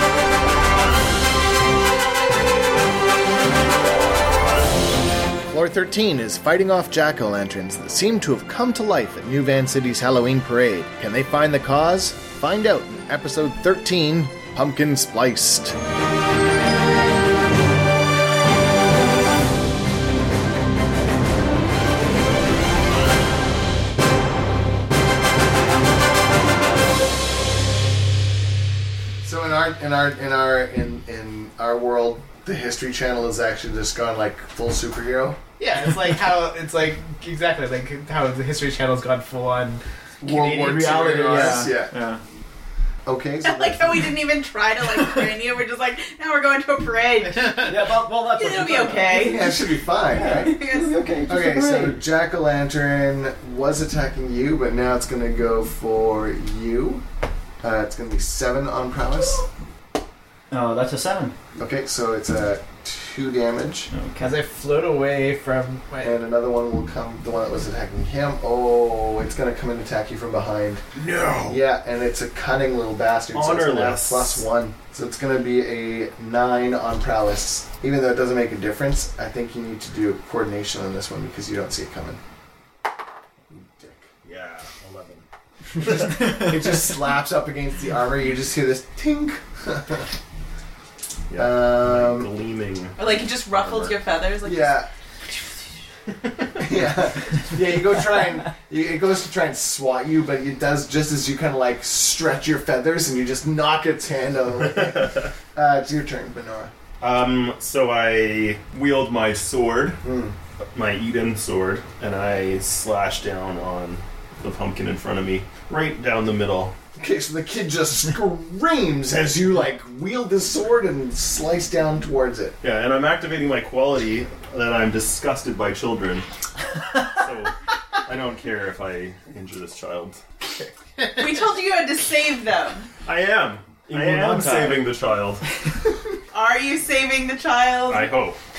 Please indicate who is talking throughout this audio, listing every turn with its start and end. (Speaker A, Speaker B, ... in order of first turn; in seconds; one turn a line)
Speaker A: 5.5-15.8
Speaker A: 29.2-35.4
Speaker B: 35.6-39.8
Speaker A: 40.2-41.9
Speaker C: 40.2-42.2
Speaker B: 40.5-41.7
Speaker A: 43.1-44.1
Speaker D: 43.4-49.6
Speaker C: 47.6-49.3
Speaker A: 49.1-50.6
Speaker C: 50.1-52.0
Speaker D: 50.2-51.0
Speaker A: 51.3-57.0
Speaker A: 57.6-59.5
Speaker C: 60.5-61.4
Speaker A: 61.6-63.9
Speaker C: 63.9-64.3
Speaker B: 64.2-66.2
Speaker A: 66.0-70.8
Speaker E: 70.9-71.6
Speaker A: 71.5-82.2
Speaker E: 73.3-74.4
Speaker A: 83.5-84.1
Speaker E: 84.2-85.2
Speaker A: 85.8-90.1
Speaker E: 91.3-93.0
Speaker A: 91.4-92.3
Speaker D: 93.0-94.8
Speaker E: 93.5-94.0
Speaker A: 94.4-94.9
Speaker A: 96.6-106.7
Speaker E: 104.6-105.3
Speaker E: 107.0-110.0
Speaker A: 110.0-110.4
Speaker E: 110.7-116.8
Speaker A: 117.0-122.6
Speaker E: 122.6-126.3
Speaker E: 127.0-130.2
Speaker D: 131.1-132.9
Speaker E: 133.1-135.4
Speaker C: 133.9-134.9
Speaker D: 136.3-138.1
Speaker E: 137.9-138.4